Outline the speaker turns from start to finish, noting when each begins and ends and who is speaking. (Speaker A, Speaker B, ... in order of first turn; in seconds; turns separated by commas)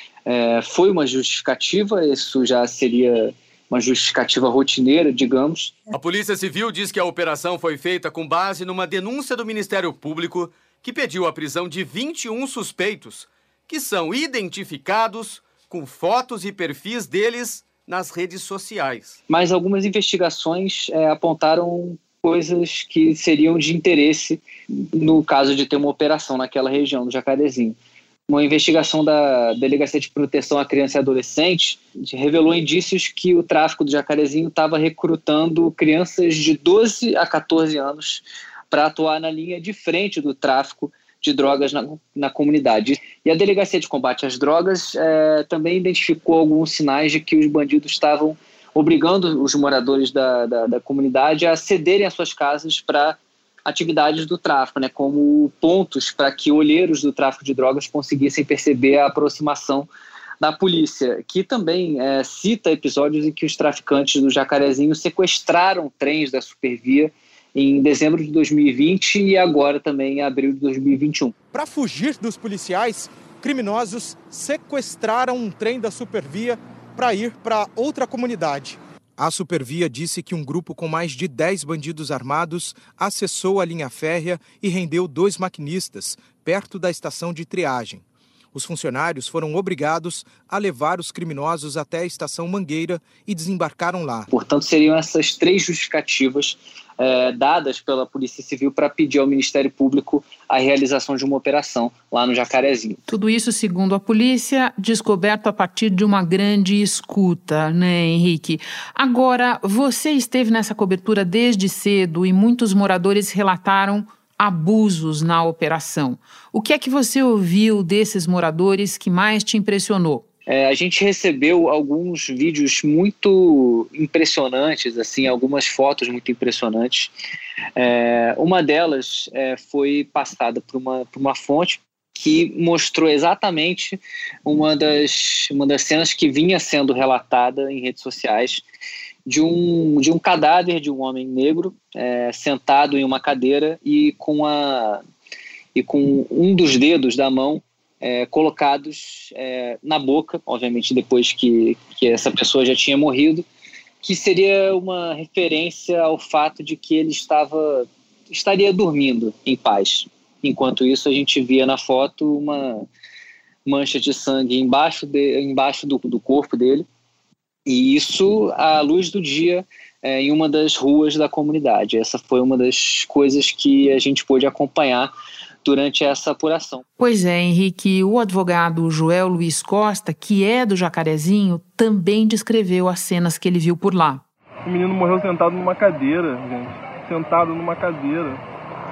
Speaker A: 0.2-5.8, Speaker B: 5.9-19.2, Speaker A: 19.3-27.8, Speaker A: 28.3-59.9, Speaker A: 60.4-71.3, Speaker C: 71.5-94.3, Speaker A: 94.3-103.0, Speaker D: 103.1-120.2, Speaker A: 120.5-127.1, Speaker A: 127.8-138.6, Speaker A: 139.2-145.0, Speaker A: 145.7-153.4, Speaker A: 154.0-162.8, Speaker A: 163.7-166.8, Speaker A: 167.7-175.1, Speaker A: 175.6-176.8, Speaker D: 177.0-184.2, Speaker E: 184.6-188.4